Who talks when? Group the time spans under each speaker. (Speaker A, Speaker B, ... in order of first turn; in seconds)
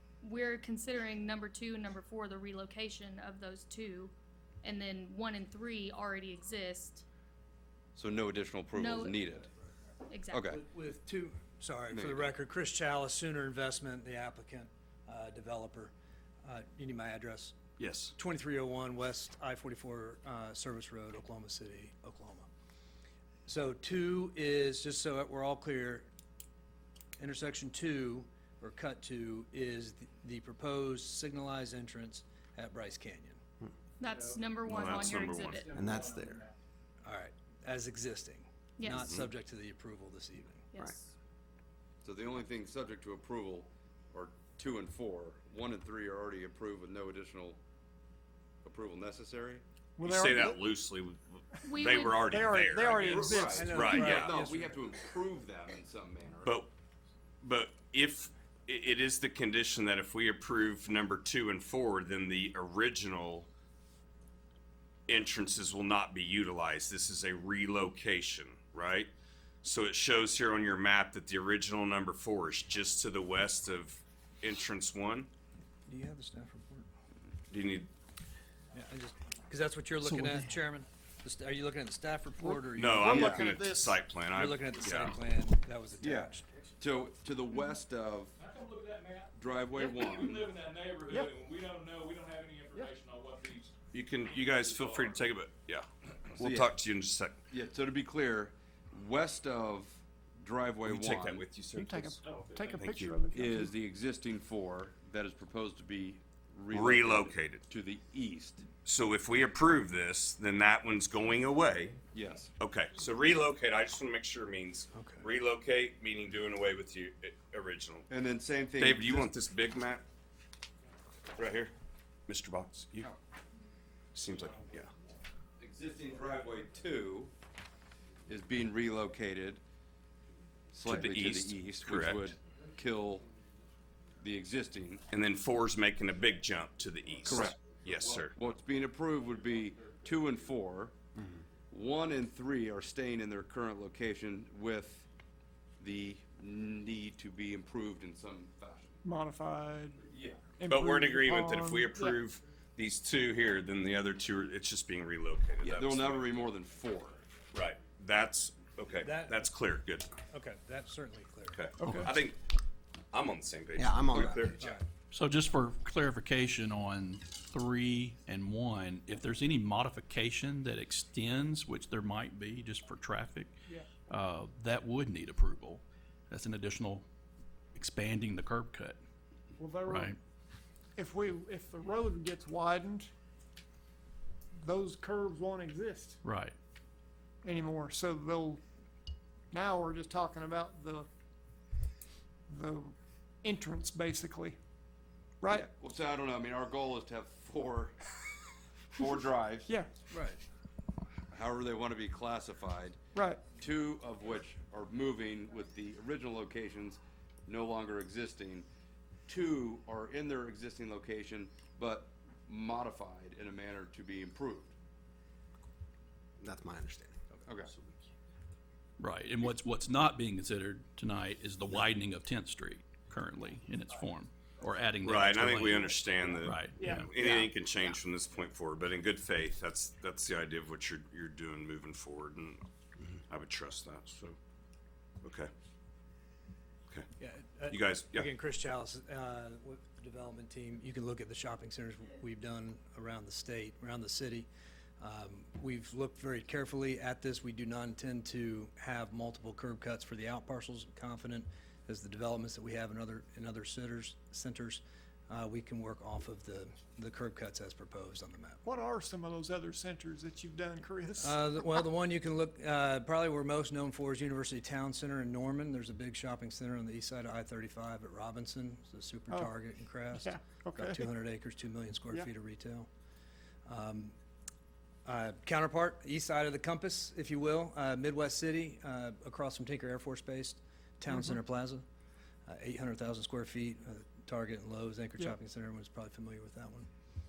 Speaker A: 0.2-7.0, 8.7-9.2, 10.1-10.4, 34.0-35.8, 38.8-39.0, 40.7-41.1, 51.7-52.4
Speaker B: 8.0-9.5, 10.3-10.6, 11.9-12.3, 42.0-47.6, 48.6-49.6, 53.0-56.6, 83.1-83.5, 86.0-88.3, 89.3-90.5, 96.4-96.8, 97.5-101.5, 103.3-108.7, 112.0-112.5, 118.1-119.3, 125.6-127.3, 128.3-129.6, 130.7-133.3, 134.2-135.1, 137.3-137.6, 138.2-141.0, 141.7-145.1, 145.8-149.0, 150.1-150.4, 155.6-157.2, 195.5-198.0, 198.9-199.8, 201.3-203.0, 203.5-208.7, 209.3-214.7, 217.5-217.7
Speaker C: 10.5-17.6, 18.2-22.5, 23.5-26.1, 27.2-33.4, 37.0-40.7, 53.5-54.8, 75.9-76.9, 78.7-83.6, 84.3-86.5, 114.9-115.3, 159.0-159.5, 160.3-161.7, 164.1-164.9, 200.1-200.4, 237.2-244.5, 245.0-258.6, 261.2-272.9, 273.7-274.1, 275.1-281.8, 282.5-286.9
Speaker D: 17.8-18.1, 34.6-35.7, 38.9-39.3, 50.0-54.4, 56.5-56.7, 57.4-63.5, 65.1-69.1, 69.6-75.3, 77.5-77.9, 82.7-85.2, 93.9-97.4, 100.8-102.2, 102.7-103.2, 106.7-107.7, 108.8-112.0, 112.6-118.1, 118.8-120.0, 121.4-121.7, 122.3-123.1, 124.2-124.9, 130.8-132.3, 135.1-138.4, 150.7-156.5, 157.5-160.2, 161.5-162.4, 163.1-164.7, 225.0-232.7, 233.3-234.4, 235.2-235.5, 237.7-238.3
Speaker E: 34.0-35.0, 35.7-36.5, 88.4-95.2, 102.1-102.8, 124.3-125.0
Speaker F: 35.7-36.4, 163.8-164.6, 216.4-217.2, 227.1-228.0
Speaker G: 50.0-50.6, 52.3-54.2, 83.6-83.8, 101.8-103.7, 149.0-152.2, 179.6-180.1, 181.0-183.1, 184.6-186.2, 187.4-188.6, 189.5-191.1, 192.5-194.6, 195.4-195.7, 199.7-199.9, 203.1-203.4, 226.8-227.1, 258.6-261.4, 270.1-271.1, 281.1-281.4
Speaker H: 80.0-80.4, 161.8-162.1, 165.1-177.1, 177.8-179.0, 179.8-180.2, 186.2-186.6, 219.0-227.1